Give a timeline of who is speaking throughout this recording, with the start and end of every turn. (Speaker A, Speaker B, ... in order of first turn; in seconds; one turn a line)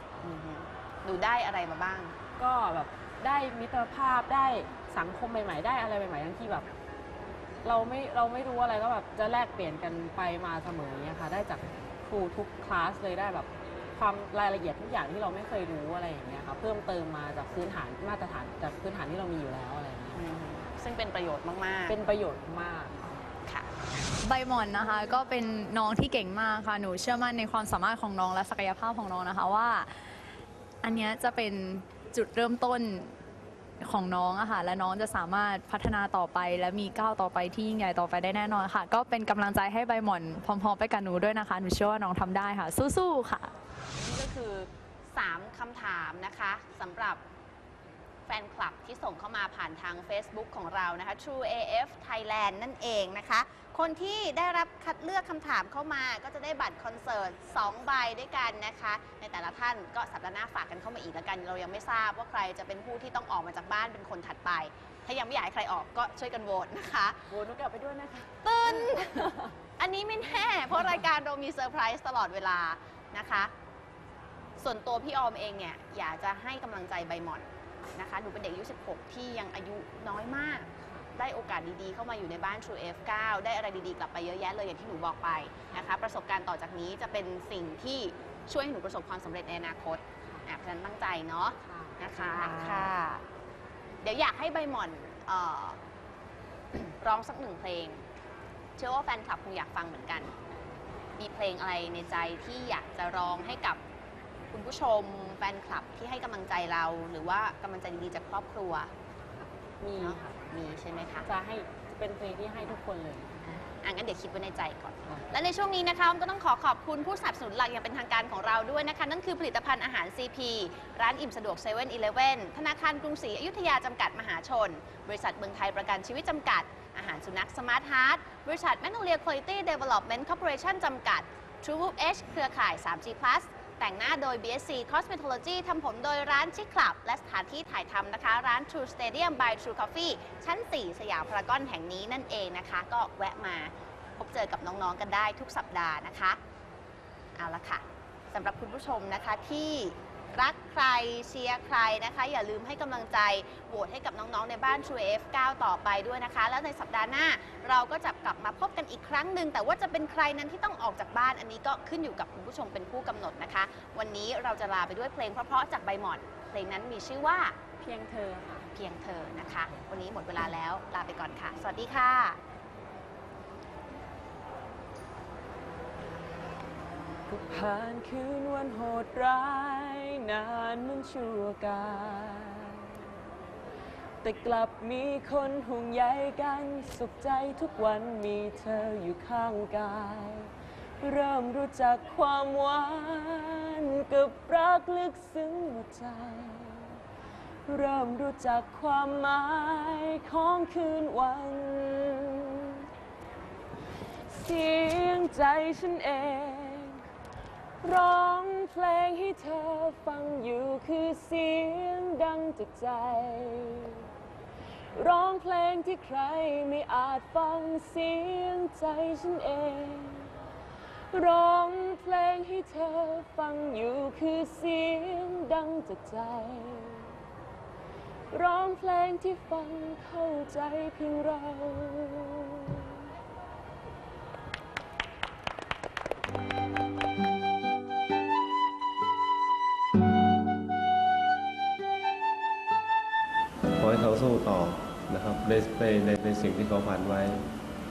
Speaker A: 0.2-2.1
Speaker B: 2.4-6.7
Speaker B: 7.6-20.2
Speaker A: 20.1-21.9
Speaker B: 21.9-23.2
Speaker C: 24.2-29.9
Speaker C: 30.8-33.1
Speaker C: 33.8-43.5
Speaker A: 44.0-47.2
Speaker A: 48.3-67.2
Speaker B: 67.3-69.5
Speaker A: 68.4-73.5
Speaker A: 74.6-93.2
Speaker B: 80.8-81.1
Speaker B: 90.2-90.5
Speaker B: 91.6-92.9
Speaker A: 94.0-95.8
Speaker A: 96.7-98.0
Speaker A: 98.8-100.3
Speaker A: 101.2-103.8
Speaker A: 104.5-108.9
Speaker B: 109.8-110.4
Speaker A: 110.0-111.2
Speaker B: 111.2-113.5
Speaker A: 113.6-146.4
Speaker A: 147.4-167.6
Speaker B: 167.8-168.7
Speaker A: 168.7-172.4
Speaker D: 177.3-179.5
Speaker B: 178.0-178.4
Speaker B: 179.0-181.3
Speaker D: 180.3-182.3
Speaker B: 181.9-182.7
Speaker D: 184.2-190.5
Speaker B: 184.7-185.2
Speaker B: 187.5-190.3
Speaker D: 191.0-192.9
Speaker B: 191.5-192.1
Speaker B: 192.9-194.8
Speaker D: 193.8-196.6
Speaker D: 197.7-199.4
Speaker B: 199.4-200.7
Speaker D: 200.2-201.8
Speaker B: 201.6-202.6
Speaker D: 204.3-207.0
Speaker D: 207.8-214.0
Speaker B: 208.6-209.8
Speaker B: 210.3-210.8
Speaker B: 211.7-212.1
Speaker D: 214.9-220.3
Speaker B: 216.3-216.6
Speaker D: 221.1-227.1
Speaker B: 223.2-224.1
Speaker D: 228.3-231.8
Speaker B: 231.7-232.8
Speaker E: 243.7-247.4